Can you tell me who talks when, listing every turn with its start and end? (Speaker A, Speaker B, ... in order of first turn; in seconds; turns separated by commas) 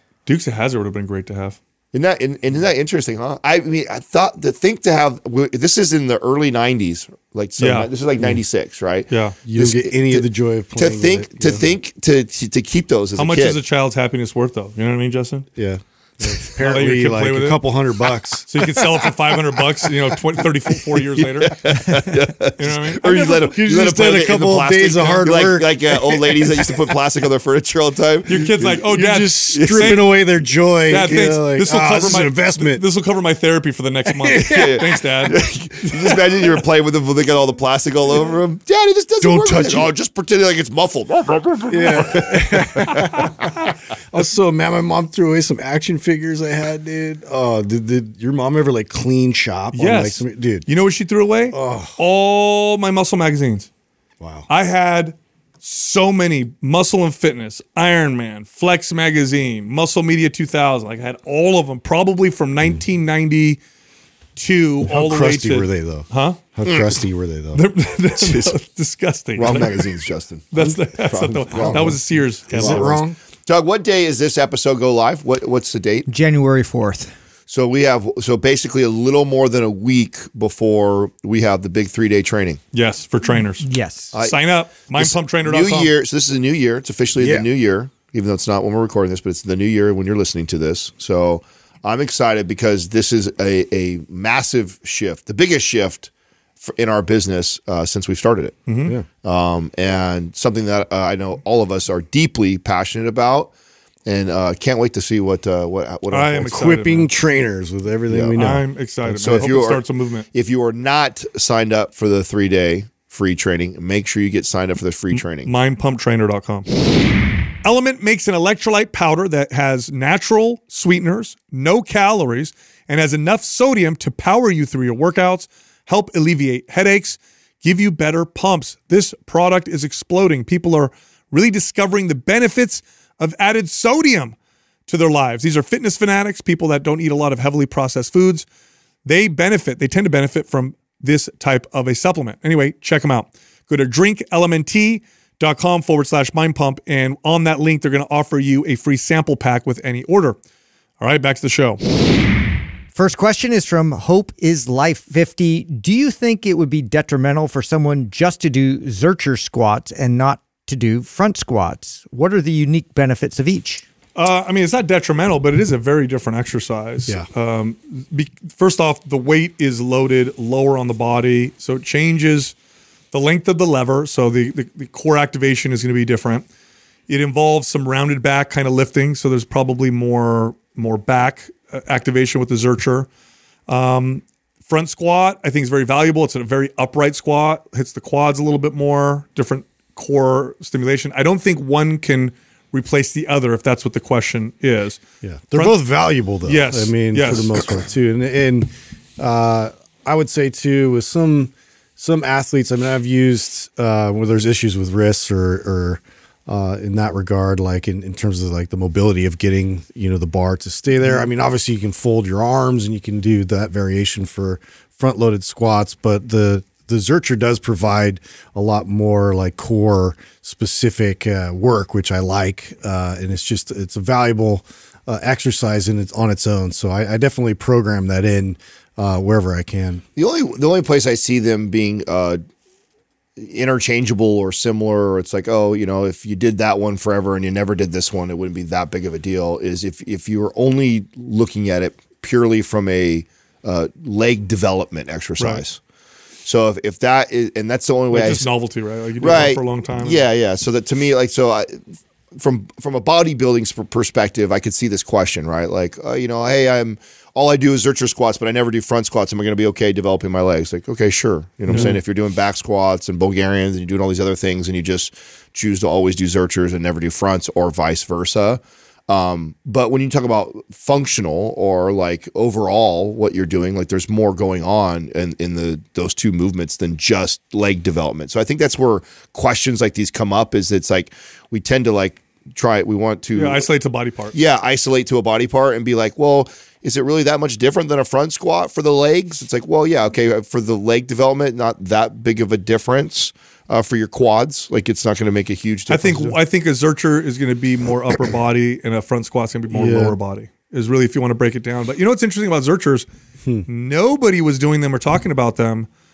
Speaker A: 0.3-1.6, Speaker B: 1.9-13.6, Speaker A: 7.6-7.9, Speaker A: 9.1-9.4, Speaker C: 9.5-11.8, Speaker A: 13.2-15.5, Speaker C: 15.6-19.4, Speaker A: 16.6-17.6, Speaker A: 18.5-21.8, Speaker B: 21.2-28.8, Speaker A: 22.6-23.1, Speaker C: 23.0-26.9, Speaker A: 28.3-30.1, Speaker C: 28.4-32.8, Speaker B: 29.5-30.1, Speaker A: 30.9-35.4, Speaker C: 34.1-34.8, Speaker B: 34.3-43.6, Speaker C: 39.2-39.9, Speaker C: 41.7-50.7, Speaker A: 42.9-43.3, Speaker A: 49.7-53.7, Speaker C: 51.5-52.0, Speaker C: 54.2-54.5, Speaker A: 54.5-63.6, Speaker A: 64.4-66.4, Speaker C: 64.8-67.6, Speaker B: 66.7-66.9, Speaker A: 67.5-69.9, Speaker B: 68.2-68.6, Speaker B: 69.4-70.5, Speaker A: 70.5-73.0, Speaker C: 70.6-72.0, Speaker B: 71.1-72.0, Speaker B: 72.5-76.1, Speaker C: 72.5-73.2, Speaker D: 76.1-77.1, Speaker B: 77.5-82.6, Speaker A: 82.7-83.7, Speaker D: 83.6-84.1, Speaker B: 84.1-84.4, Speaker A: 84.2-85.9, Speaker B: 84.9-96.1, Speaker C: 87.2-87.5, Speaker B: 96.6-98.6, Speaker A: 98.7-99.0, Speaker B: 99.2-103.5, Speaker B: 104.1-106.6, Speaker A: 106.1-107.1, Speaker C: 106.4-109.5, Speaker B: 108.1-108.5, Speaker A: 108.4-110.3, Speaker B: 109.2-109.8, Speaker B: 110.3-115.5, Speaker A: 115.1-116.7, Speaker A: 117.6-134.3, Speaker A: 134.9-138.5, Speaker A: 139.1-150.4, Speaker A: 151.0-151.8, Speaker D: 152.9-163.8, Speaker A: 164.2-172.5, Speaker A: 173.1-176.4, Speaker A: 177.1-183.1, Speaker A: 183.7-195.0, Speaker C: 195.2-230.0, Speaker A: 196.4-197.7, Speaker B: 230.2-232.4, Speaker B: 233.4-245.8, Speaker B: 246.4-248.5, Speaker A: 248.1-250.2, Speaker B: 249.2-251.8, Speaker B: 252.3-283.6, Speaker C: 261.7-262.0, Speaker A: 261.7-261.9, Speaker A: 283.4-284.4, Speaker B: 284.3-296.4, Speaker A: 295.9-303.1, Speaker C: 299.7-300.2, Speaker A: 303.7-305.9